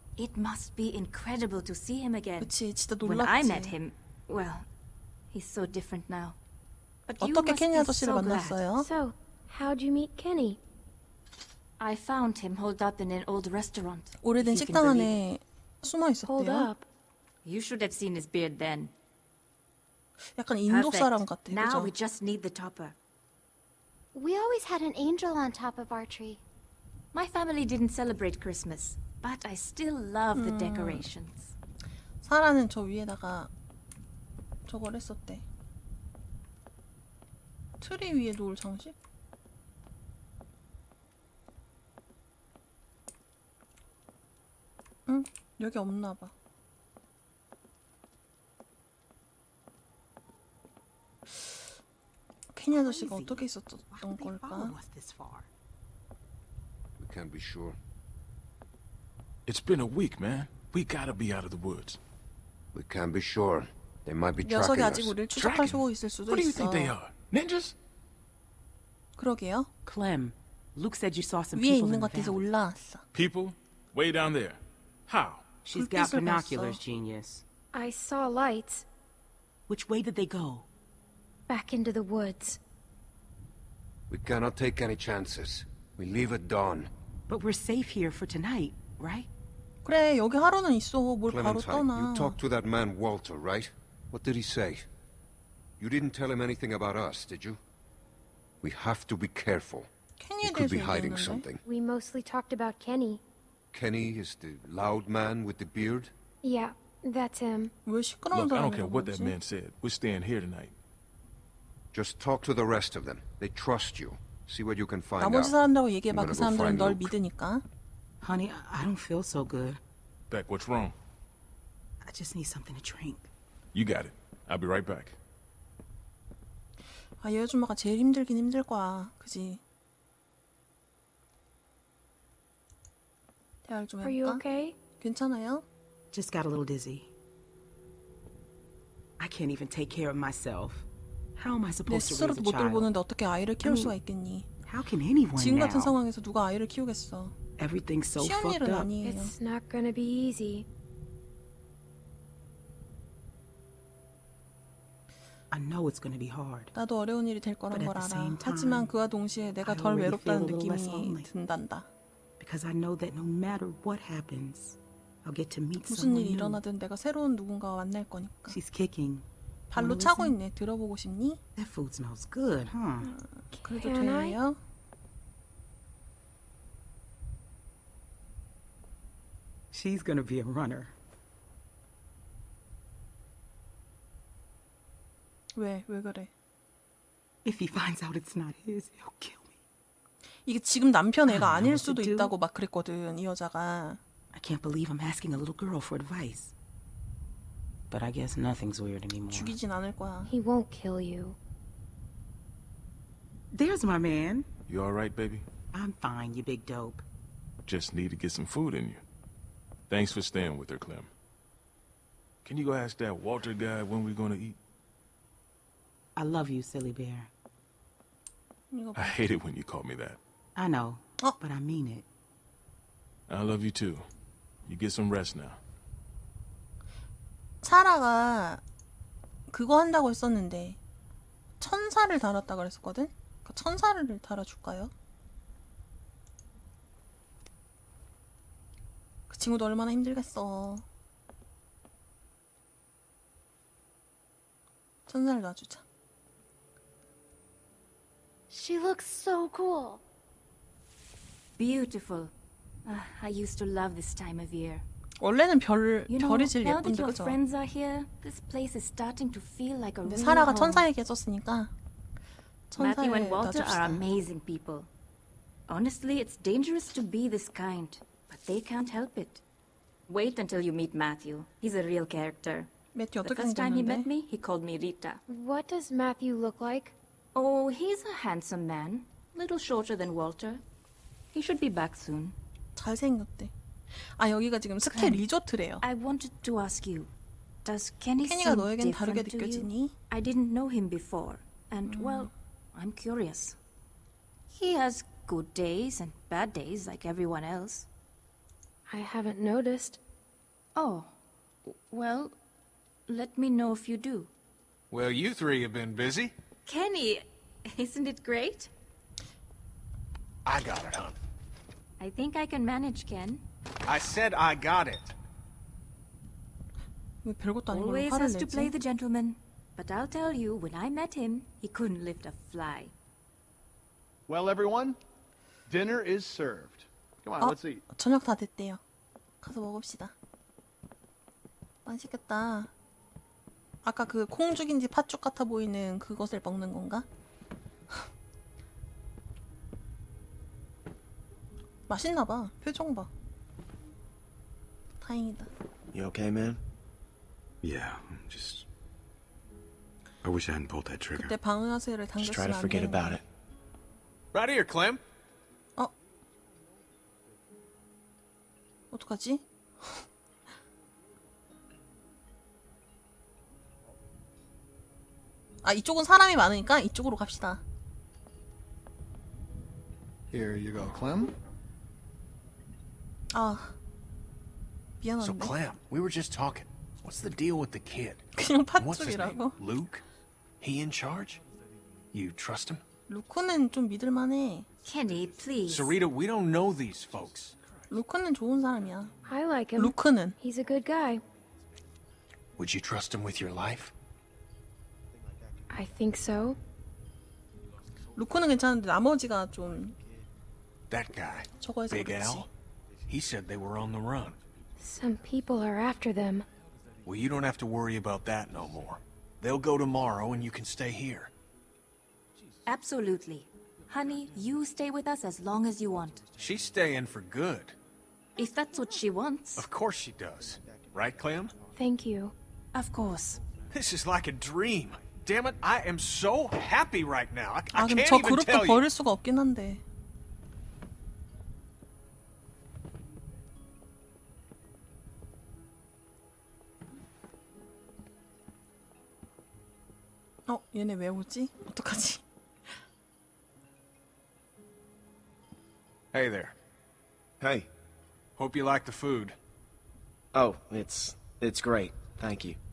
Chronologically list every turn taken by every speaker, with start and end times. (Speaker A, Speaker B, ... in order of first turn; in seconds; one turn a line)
Speaker A: 0.2-2.5
Speaker B: 2.4-3.7
Speaker A: 3.0-4.7
Speaker A: 5.3-6.4
Speaker A: 7.1-8.6
Speaker B: 7.2-8.9
Speaker C: 8.8-10.6
Speaker A: 11.8-15.2
Speaker B: 14.2-16.7
Speaker C: 16.2-16.9
Speaker A: 17.4-18.9
Speaker B: 20.4-21.9
Speaker A: 20.7-22.9
Speaker C: 24.1-26.4
Speaker A: 27.1-31.5
Speaker B: 30.3-31.0
Speaker B: 32.2-33.5
Speaker B: 34.6-35.4
Speaker B: 37.8-38.9
Speaker B: 45.1-46.3
Speaker B: 52.5-54.8
Speaker D: 52.7-55.5
Speaker E: 57.0-57.8
Speaker F: 59.5-62.0
Speaker E: 62.7-65.2
Speaker B: 64.4-66.9
Speaker F: 65.3-67.7
Speaker B: 69.2-69.7
Speaker D: 69.8-72.4
Speaker B: 71.5-73.0
Speaker F: 73.1-75.6
Speaker D: 75.6-77.4
Speaker B: 75.7-76.8
Speaker C: 77.7-78.8
Speaker D: 79.7-80.7
Speaker C: 81.5-82.6
Speaker E: 84.1-86.9
Speaker D: 87.3-89.3
Speaker B: 89.8-92.4
Speaker E: 91.3-94.9
Speaker E: 95.8-97.6
Speaker E: 98.6-99.9
Speaker B: 100.2-101.5
Speaker E: 100.4-101.6
Speaker C: 101.6-103.2
Speaker E: 103.7-106.1
Speaker C: 106.4-107.7
Speaker B: 107.8-109.3
Speaker F: 108.3-110.8
Speaker E: 111.9-115.6
Speaker B: 115.2-117.6
Speaker E: 116.1-117.1
Speaker D: 118.2-119.8
Speaker F: 120.3-120.9
Speaker D: 122.0-123.3
Speaker F: 123.7-125.2
Speaker B: 127.2-129.6
Speaker B: 133.6-134.4
Speaker C: 134.0-134.8
Speaker B: 135.0-135.6
Speaker D: 136.1-137.1
Speaker D: 139.2-142.9
Speaker B: 141.9-144.5
Speaker D: 143.6-143.9
Speaker D: 144.7-146.0
Speaker B: 145.3-147.3
Speaker D: 147.6-148.9
Speaker B: 148.2-149.3
Speaker C: 149.0-150.7
Speaker D: 155.5-156.7
Speaker B: 156.7-161.9
Speaker D: 157.7-158.9
Speaker D: 159.6-161.3
Speaker D: 162.4-166.6
Speaker B: 165.8-168.6
Speaker D: 168.5-170.4
Speaker B: 169.7-171.4
Speaker D: 171.6-173.2
Speaker B: 173.1-174.6
Speaker C: 173.5-174.4
Speaker D: 179.7-180.9
Speaker B: 185.5-186.3
Speaker D: 187.4-189.5
Speaker B: 190.4-194.0
Speaker D: 191.3-192.3
Speaker D: 194.3-196.5
Speaker D: 197.9-199.5
Speaker B: 199.3-200.3
Speaker C: 200.3-201.4
Speaker D: 203.5-204.5
Speaker F: 204.7-205.4
Speaker D: 205.7-207.0
Speaker F: 207.7-209.0
Speaker F: 209.9-211.1
Speaker F: 212.4-214.6
Speaker D: 216.2-217.3
Speaker B: 218.7-219.2
Speaker F: 218.9-220.2
Speaker D: 220.6-222.1
Speaker F: 223.3-224.1
Speaker F: 224.7-225.6
Speaker B: 227.6-228.6
Speaker B: 229.5-230.8
Speaker B: 231.6-234.9
Speaker B: 239.3-240.8
Speaker B: 245.1-245.8
Speaker C: 248.5-250.0
Speaker A: 251.6-252.3
Speaker A: 252.8-254.8
Speaker B: 255.2-257.4
Speaker A: 256.1-260.9
Speaker B: 260.0-261.7
Speaker B: 262.7-264.0
Speaker A: 262.8-264.9
Speaker A: 265.7-269.4
Speaker A: 270.1-272.7
Speaker B: 272.9-274.1
Speaker A: 273.2-275.2
Speaker C: 275.3-276.9
Speaker A: 277.3-280.6
Speaker A: 281.3-282.3
Speaker B: 282.8-283.5
Speaker B: 284.2-285.8
Speaker A: 284.9-285.2
Speaker A: 285.8-287.1
Speaker A: 287.6-293.6
Speaker B: 288.2-289.9
Speaker B: 291.9-292.3
Speaker A: 294.5-297.9
Speaker C: 298.9-300.0
Speaker A: 300.8-301.1
Speaker A: 301.7-302.3
Speaker A: 303.1-304.3
Speaker G: 304.9-306.3
Speaker A: 306.6-308.7
Speaker G: 310.4-311.1
Speaker A: 312.0-313.4
Speaker G: 313.9-315.1
Speaker B: 317.2-318.7
Speaker A: 317.7-322.9
Speaker H: 324.3-325.0
Speaker H: 325.7-327.8
Speaker B: 327.4-328.8
Speaker B: 329.4-330.1
Speaker B: 331.8-332.7
Speaker B: 333.8-337.1
Speaker B: 341.9-343.1
Speaker B: 345.0-345.5
Speaker I: 345.9-346.6
Speaker J: 347.6-348.6
Speaker J: 350.2-351.3
Speaker B: 351.1-353.2
Speaker I: 352.2-353.2
Speaker G: 354.3-355.0
Speaker B: 358.9-360.0
Speaker B: 365.6-367.6
Speaker H: 370.3-371.3
Speaker B: 373.3-373.7
Speaker B: 375.0-375.5
Speaker G: 375.2-380.0
Speaker B: 378.3-379.6
Speaker G: 380.6-381.4
Speaker G: 382.1-382.8
Speaker B: 383.1-384.7
Speaker A: 384.8-385.9
Speaker G: 385.6-387.6
Speaker B: 387.9-389.1
Speaker C: 389.2-391.2
Speaker B: 389.8-390.4
Speaker G: 392.6-393.9
Speaker C: 395.7-396.6
Speaker B: 398.1-399.9
Speaker G: 400.9-402.5
Speaker B: 401.6-402.5
Speaker G: 403.1-404.4
Speaker C: 404.8-406.4
Speaker G: 407.1-411.3
Speaker A: 412.6-416.3
Speaker G: 416.3-417.7
Speaker A: 418.4-419.6
Speaker G: 419.6-421.6
Speaker C: 421.7-422.3
Speaker A: 422.7-423.4
Speaker G: 423.7-428.9
Speaker B: 427.7-429.8
Speaker B: 440.5-442.2
Speaker G: 446.1-446.5
Speaker I: 447.4-447.7
Speaker G: 448.4-449.4
Speaker I: 450.3-452.6